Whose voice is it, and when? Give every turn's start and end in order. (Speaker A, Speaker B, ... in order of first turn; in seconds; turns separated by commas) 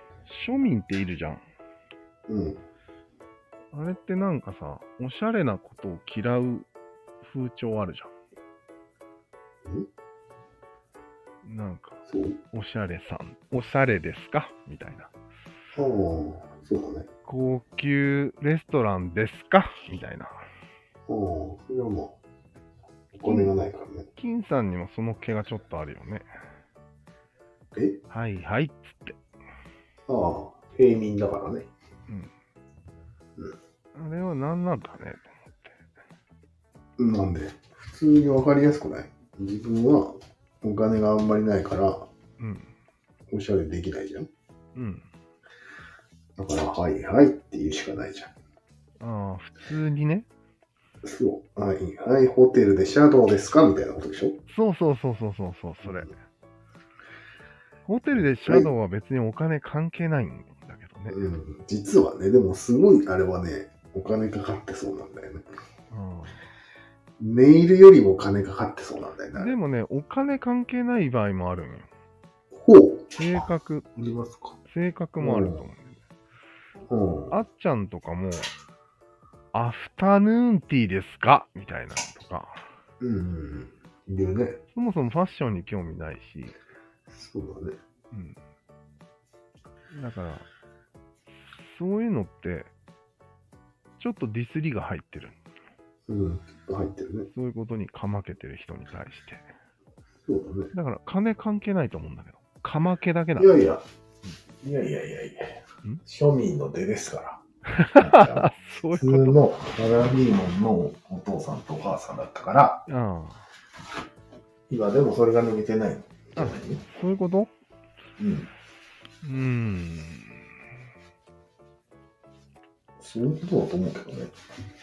Speaker A: 0.3-1.4, Speaker B: 2.3-2.6, Speaker A: 3.7-6.7, Speaker A: 7.2-8.1, Speaker A: 11.4-15.1, Speaker B: 12.1-12.4, Speaker B: 15.8-17.1, Speaker A: 17.3-20.3, Speaker B: 21.1-22.2, Speaker B: 23.1-24.1, Speaker A: 23.3-23.5, Speaker A: 24.2-26.3, Speaker A: 28.1-29.2, Speaker B: 30.1-31.7, Speaker A: 34.0-35.7, Speaker B: 37.0-42.1, Speaker A: 42.4-42.7, Speaker B: 43.3-44.3, Speaker A: 44.8-45.1, Speaker B: 46.4-48.3, Speaker A: 49.0-50.3, Speaker B: 51.0-54.4, Speaker A: 54.5-56.1, Speaker A: 57.9-61.2, Speaker B: 58.5-58.7, Speaker B: 61.1-65.5, Speaker A: 65.9-66.4, Speaker B: 67.2-69.6, Speaker A: 69.3-71.9, Speaker B: 72.6-74.6, Speaker A: 73.2-73.9, Speaker A: 74.7-76.0, Speaker B: 75.2-75.6, Speaker B: 76.9-77.3, Speaker A: 77.3-78.5, Speaker A: 79.5-82.6, Speaker B: 83.0-84.6, Speaker A: 84.7-86.5, Speaker B: 87.1-87.8, Speaker A: 88.1-88.4, Speaker A: 89.9-90.5, Speaker A: 91.4-92.7, Speaker A: 94.0-95.4, Speaker B: 96.1-97.3, Speaker A: 97.3-99.5, Speaker B: 100.3-100.7, Speaker A: 100.7-103.6, Speaker B: 103.4-103.8, Speaker B: 104.6-107.4, Speaker A: 107.7-109.5, Speaker B: 108.0-112.8, Speaker A: 112.9-113.5, Speaker B: 114.7-116.8, Speaker A: 116.4-117.5, Speaker B: 118.2-118.5, Speaker A: 119.2-120.5, Speaker B: 123.0-124.3